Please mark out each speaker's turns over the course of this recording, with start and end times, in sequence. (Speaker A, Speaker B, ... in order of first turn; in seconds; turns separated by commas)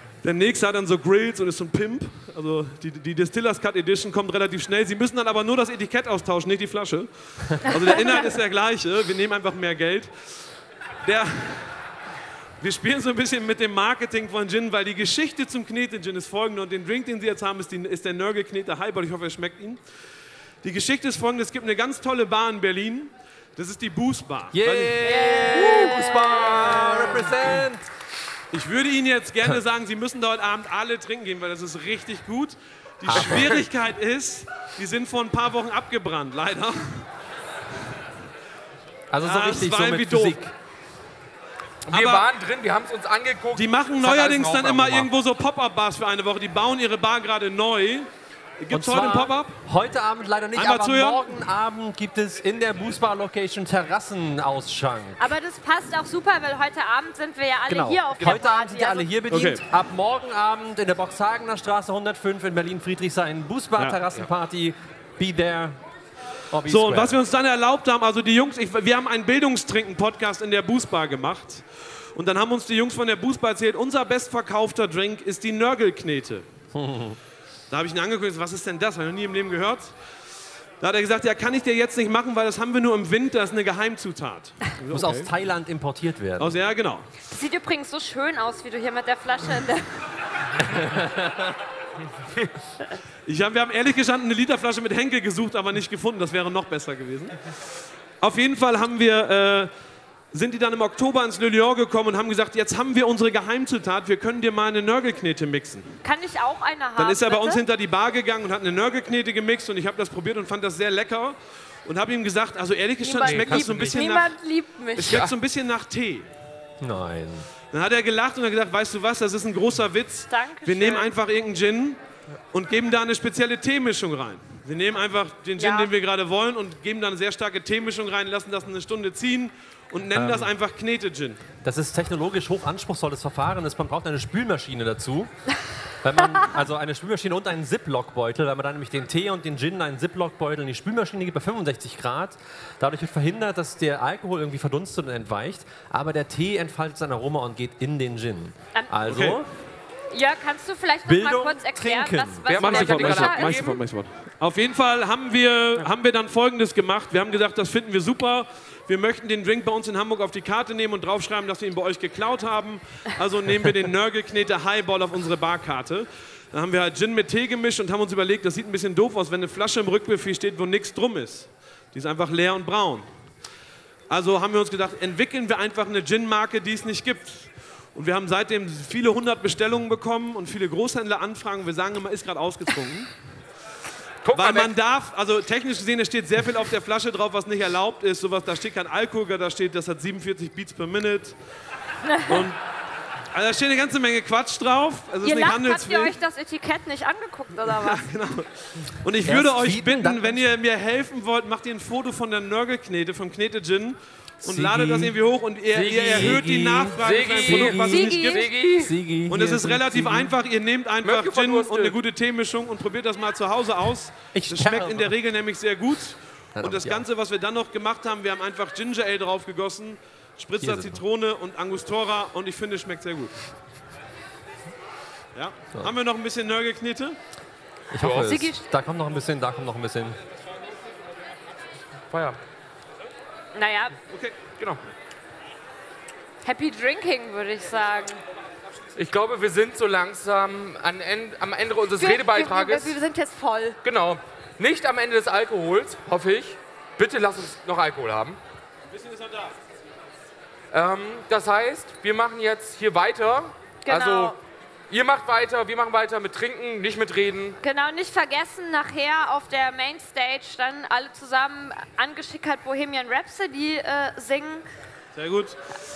Speaker A: 0.2-10.3, Speaker A: 11.0-11.8, Speaker A: 12.6-19.8, Speaker A: 20.6-26.0, Speaker B: 24.5-27.9, Speaker C: 25.0-27.3, Speaker A: 27.3-27.6, Speaker A: 28.5-37.1, Speaker B: 33.0-33.7, Speaker B: 39.1-40.5, Speaker A: 39.2-40.4, Speaker D: 41.9-45.1, Speaker A: 41.9-42.2, Speaker A: 43.6-49.6, Speaker B: 48.7-55.3, Speaker A: 50.5-51.4, Speaker C: 55.2-59.1, Speaker B: 57.7-65.8, Speaker A: 59.3-59.6, Speaker B: 66.5-67.2, Speaker A: 66.7-76.5, Speaker B: 76.7-77.2, Speaker A: 77.7-79.9, Speaker A: 80.8-85.3, Speaker B: 84.9-86.6, Speaker A: 86.4-87.1, Speaker C: 87.3-90.1, Speaker B: 90.6-91.5, Speaker A: 93.3-97.5, Speaker A: 98.2-99.7, Speaker A: 100.3-106.0, Speaker C: 106.0-107.6, Speaker A: 107.0-114.3, Speaker C: 113.0-115.3, Speaker D: 113.2-114.0, Speaker A: 115.0-116.3, Speaker B: 116.8-117.5, Speaker A: 117.7-122.0, Speaker C: 120.3-121.1, Speaker A: 122.5-131.4, Speaker C: 125.6-125.9, Speaker B: 130.1-130.5, Speaker B: 131.6-135.3, Speaker B: 136.0-149.5, Speaker A: 149.1-149.4, Speaker C: 150.1-153.7, Speaker B: 151.1-152.5, Speaker D: 152.5-153.8, Speaker A: 152.6-173.1, Speaker A: 174.1-183.1, Speaker D: 184.2-184.7, Speaker A: 184.3-191.3, Speaker A: 192.2-192.6, Speaker A: 193.3-196.1, Speaker C: 195.2-198.1, Speaker A: 197.7-208.5, Speaker B: 199.3-200.4, Speaker B: 204.4-205.2, Speaker D: 205.7-209.0, Speaker B: 206.0-208.1, Speaker C: 207.8-208.5, Speaker B: 208.8-210.3, Speaker A: 209.3-223.4, Speaker D: 211.0-212.0, Speaker B: 214.3-215.1, Speaker B: 216.6-217.1, Speaker B: 220.6-221.0, Speaker A: 225.3-227.2, Speaker B: 227.9-230.2, Speaker D: 227.9-228.3, Speaker C: 228.1-228.7, Speaker D: 232.1-232.4, Speaker C: 233.5-234.0, Speaker A: 234.1-234.4, Speaker C: 236.4-238.2, Speaker D: 238.9-242.9, Speaker C: 242.0-243.8, Speaker D: 243.8-248.4, Speaker A: 248.9-249.5, Speaker D: 250.7-254.4, Speaker C: 253.8-254.3, Speaker D: 254.9-257.6, Speaker C: 257.6-264.6, Speaker A: 265.1-265.6